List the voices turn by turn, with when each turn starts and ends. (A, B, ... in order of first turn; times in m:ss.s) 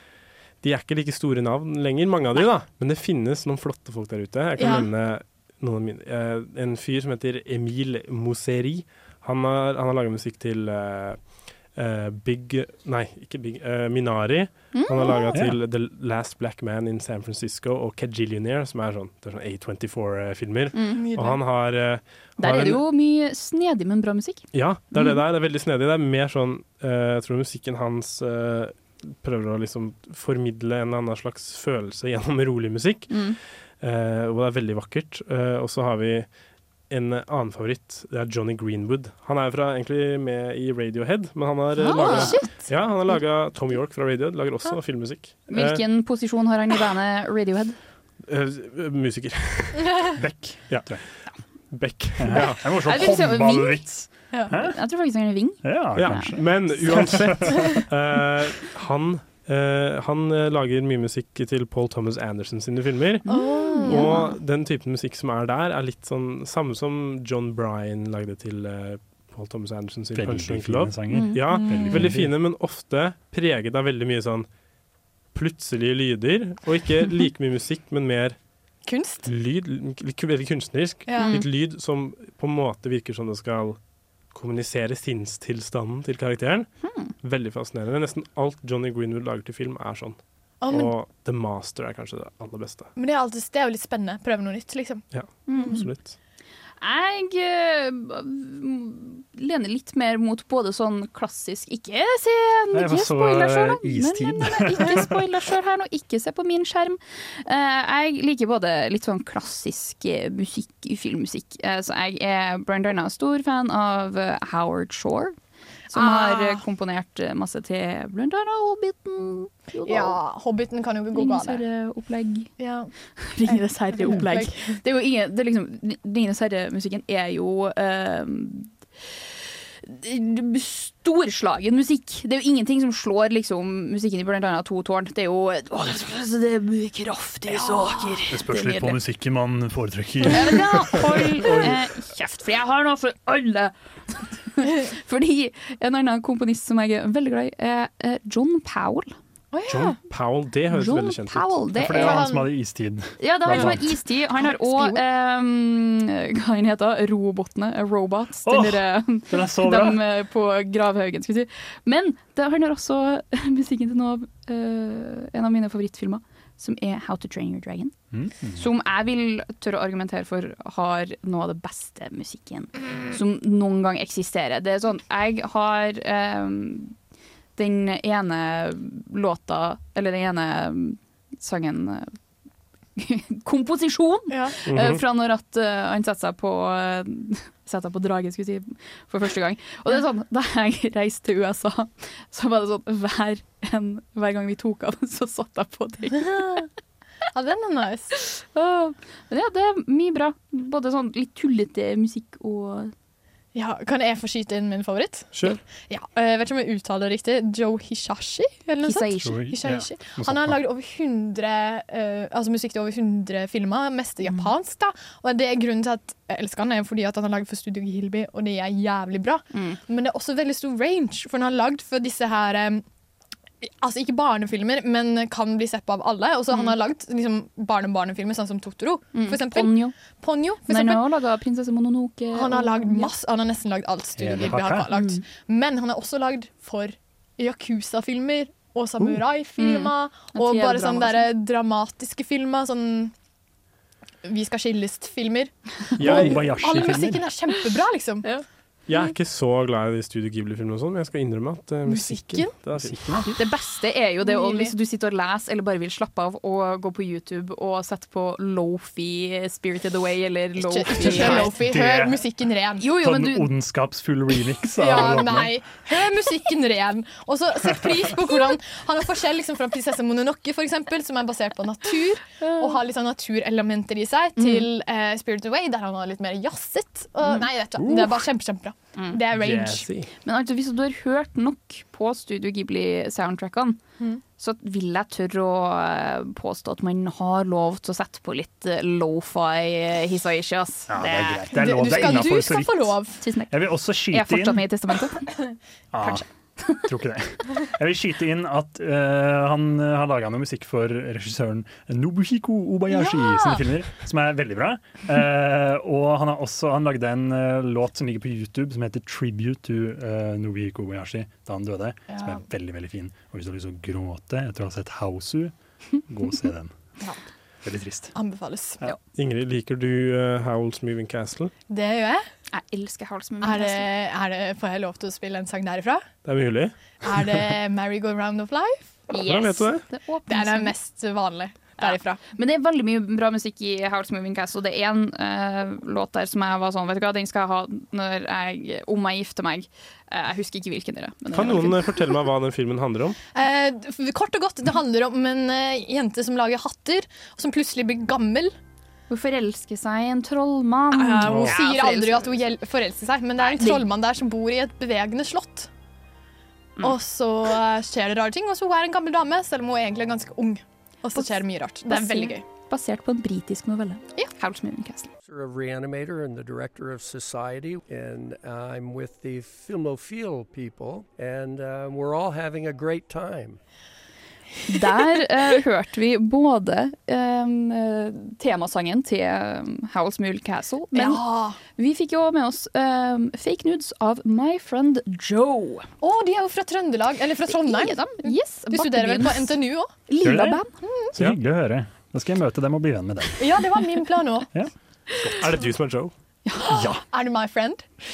0:00.6-0:11.2 A
0:04.6-0:04.9 B
0:11.7-0:22.8 A
0:14.7-0:15.4 C
0:15.3-0:15.6 D
0:21.0-0:21.4 B
0:22.4-0:25.2 C
0:24.5-0:33.2 A
0:33.1-0:33.4 C
0:33.8-0:36.3 A
0:36.9-0:45.8 A
0:41.8-0:42.5 C
0:41.8-0:42.7 B
0:45.5-0:47.8 C
0:48.2-0:50.1 A
0:50.2-0:51.0 D
0:51.7-0:52.6 A
0:52.2-0:54.7 D
0:52.7-0:53.8 C
0:54.5-0:57.2 C
0:55.6-0:57.6 D
0:56.0-1:03.3 A
1:03.2-1:04.3 C
1:03.3-1:04.2 B
1:03.8-1:14.5 A
1:10.1-1:12.3 D
1:11.1-1:11.6 C
1:11.5-1:12.0 B
1:15.3-1:18.4 A
1:18.8-1:19.3 B
1:19.2-1:23.8 A
1:21.1-1:21.4 B
1:21.1-1:21.4 C
1:24.3-1:26.7 A
1:26.8-1:27.1 C
1:27.2-1:32.9 A
1:30.6-1:30.9 B
1:33.0-1:35.0 B
1:35.1-1:36.1 A
1:35.5-1:35.8 C
1:36.8-1:55.3 C
1:42.7-1:45.1 D
1:55.9-2:00.2 C
1:55.9-1:56.6 B
1:59.8-2:01.6 B
2:01.1-2:02.5 C
2:02.6-2:02.9 B
2:03.2-2:08.7 C
2:03.4-2:04.8 B
2:09.8-2:19.0 C
2:17.5-2:18.1 B
2:18.3-2:20.9 D
2:20.3-2:29.1 C
2:21.4-2:21.8 A
2:29.5-2:30.0 B
2:29.7-2:31.6 A
2:30.7-2:32.2 C
2:31.8-2:33.8 D
2:31.9-2:32.5 B
2:33.2-2:47.9 C
2:33.5-2:33.8 B
2:34.4-2:35.0 B
2:38.4-2:40.0 D
2:48.1-2:48.6 D
2:48.5-2:56.9 C
2:57.6-3:02.1 C
3:03.0-3:16.7 C
3:04.3-3:04.6 B
3:04.6-3:05.0 A
3:17.3-3:18.1 B
3:18.1-3:22.9 C
3:23.5-3:42.8 B
3:25.3-3:25.6 A
3:28.8-3:29.4 C
3:29.2-3:30.6 D
3:39.5-3:39.8 C
3:43.6-3:51.0 B
3:49.1-3:49.9 C
3:50.7-3:53.1 C
3:52.3-4:03.1 B
3:54.2-3:54.9 D
3:54.9-3:55.2 C
3:59.6-4:01.3 C
4:04.2-4:08.3 B
4:06.0-4:07.3 D
4:06.0-4:06.4 A
4:08.9-4:13.0 A
4:11.8-4:12.5 B
4:12.7-4:13.3 D
4:13.4-4:21.6 C
4:14.2-4:14.7 B
4:20.6-4:22.9 B
4:21.0-4:22.2 D
4:22.8-4:23.5 C
4:23.0-4:25.6 D
4:24.8-4:39.9 B
4:32.4-4:32.8 C
4:34.4-4:34.7 C
4:37.8-4:38.2 D
4:39.3-4:39.8 D
4:39.8-4:40.1 A
4:40.2-4:43.8 C
4:44.4-4:51.5 C
4:50.9-4:53.0 D
4:51.5-4:53.2 B
4:53.2-4:53.6 C
4:53.5-4:54.6 D
4:54.1-4:55.3 C
4:55.9-4:56.2 D
4:56.0-4:56.8 C
4:56.8-5:15.5 D
5:02.9-5:03.6 B
5:12.1-5:12.4 B
5:16.1-5:16.7 D
5:17.6-5:18.1 D
5:18.1-5:18.8 B
5:19.1-5:21.5 A
5:21.7-5:22.2 B
5:22.5-5:23.9 C
5:23.4-5:26.0 B
5:26.2-5:26.8 A
5:27.0-5:29.0 B
5:29.1-5:30.7 C
5:29.1-5:29.8 A
5:30.3-5:32.2 B
5:31.8-5:42.0 C
5:41.3-5:43.2 A
5:43.3-5:48.5 B
5:49.1-5:52.4 C
5:50.9-5:55.7 B
5:51.3-5:51.5 D
5:53.4-5:53.8 C
5:56.8-6:02.4 B
6:01.1-6:05.1 C
6:05.2-6:13.6 E
6:14.7-6:25.9 C
6:20.9-6:21.6 B
6:26.0-6:29.9 B
6:27.5-6:30.7 C
6:30.2-6:33.5 D
6:30.8-6:31.1 B
6:33.4-6:34.5 B
6:35.2-6:36.1 A
6:36.4-6:36.7 C
6:36.7-6:37.0 D
6:36.7-6:37.8 B